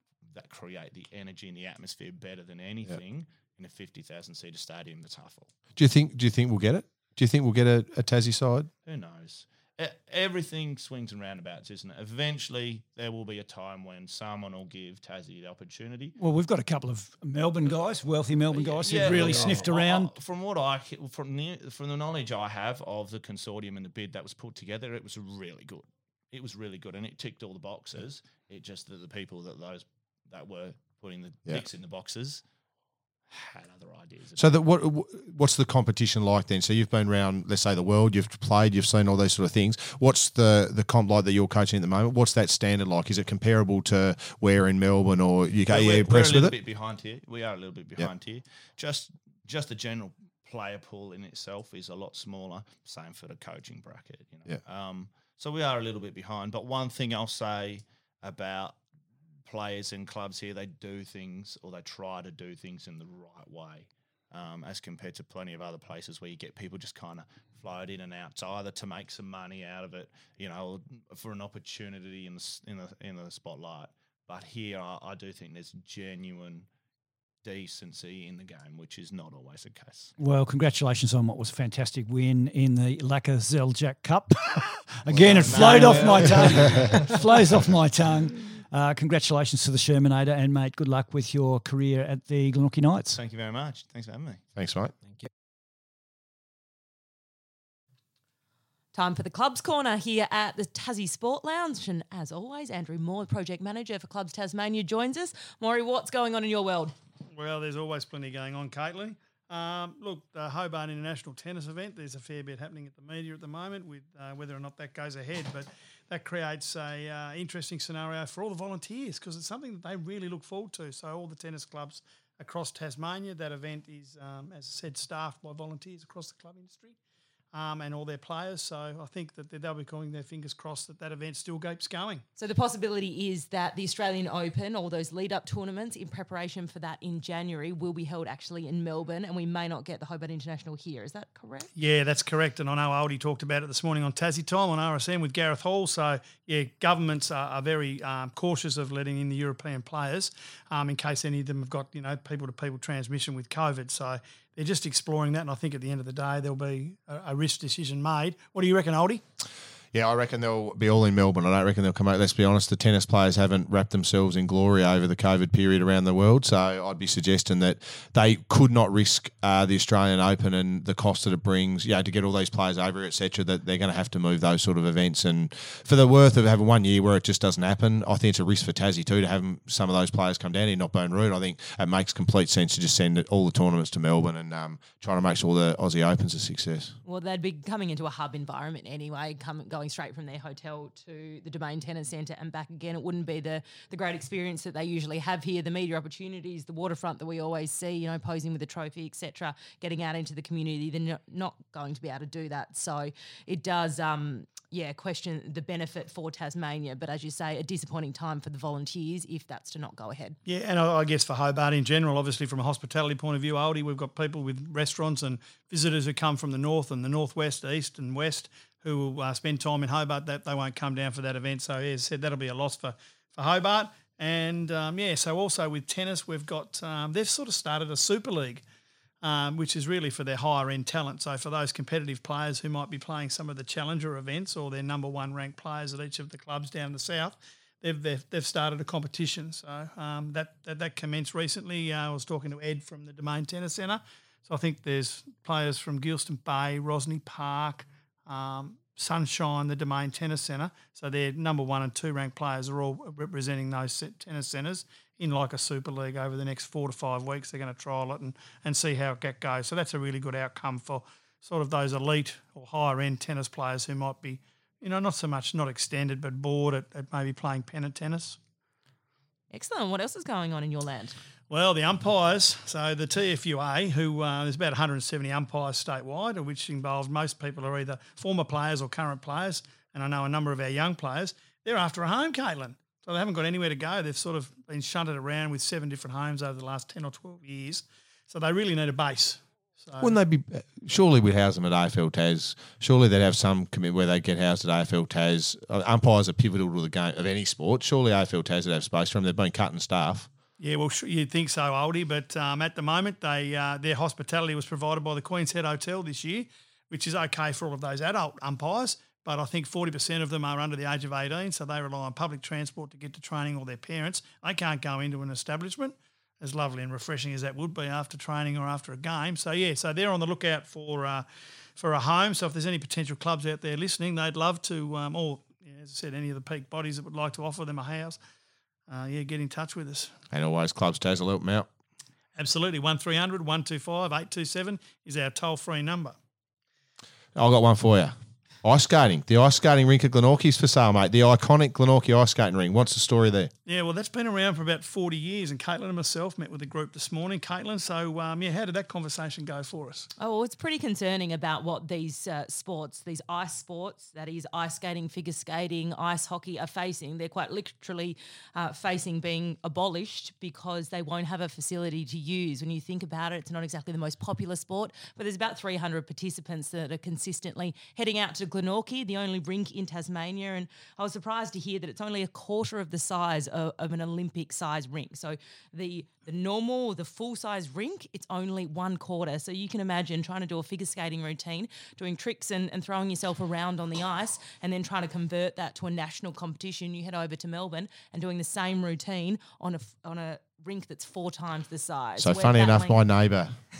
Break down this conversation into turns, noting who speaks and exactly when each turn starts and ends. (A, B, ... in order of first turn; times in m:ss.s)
0:00.3-0:05.5 A
0:05.8-0:08.7 B
0:08.8-0:16.2 A
0:16.2-0:20.1 C
0:18.5-0:32.4 A
0:33.3-0:34.6 A
0:34.4-0:46.5 B
0:45.6-0:58.8 A
0:59.4-1:16.7 A
1:17.4-1:20.1 A
1:20.2-1:33.2 C
1:25.1-1:27.4 A
1:33.0-1:34.4 A
1:34.5-1:34.9 B
1:38.9-1:46.9 D
1:47.3-2:07.0 E
2:07.5-2:12.2 E
2:12.4-2:21.7 D
2:21.8-2:39.2 E
2:39.9-3:07.0 B
3:07.0-3:30.4 D
3:30.4-3:48.6 E
3:49.2-4:28.4 E
4:29.5-4:31.2 D
4:31.5-4:50.1 E
4:50.0-5:00.3 B
5:00.6-5:28.2 E
5:28.9-5:30.1 E
5:30.3-5:31.7 B
5:32.4-5:36.2 E
5:37.4-5:43.5 B
5:43.6-5:50.1 E
5:50.2-6:33.0 D
6:32.2-6:33.6 B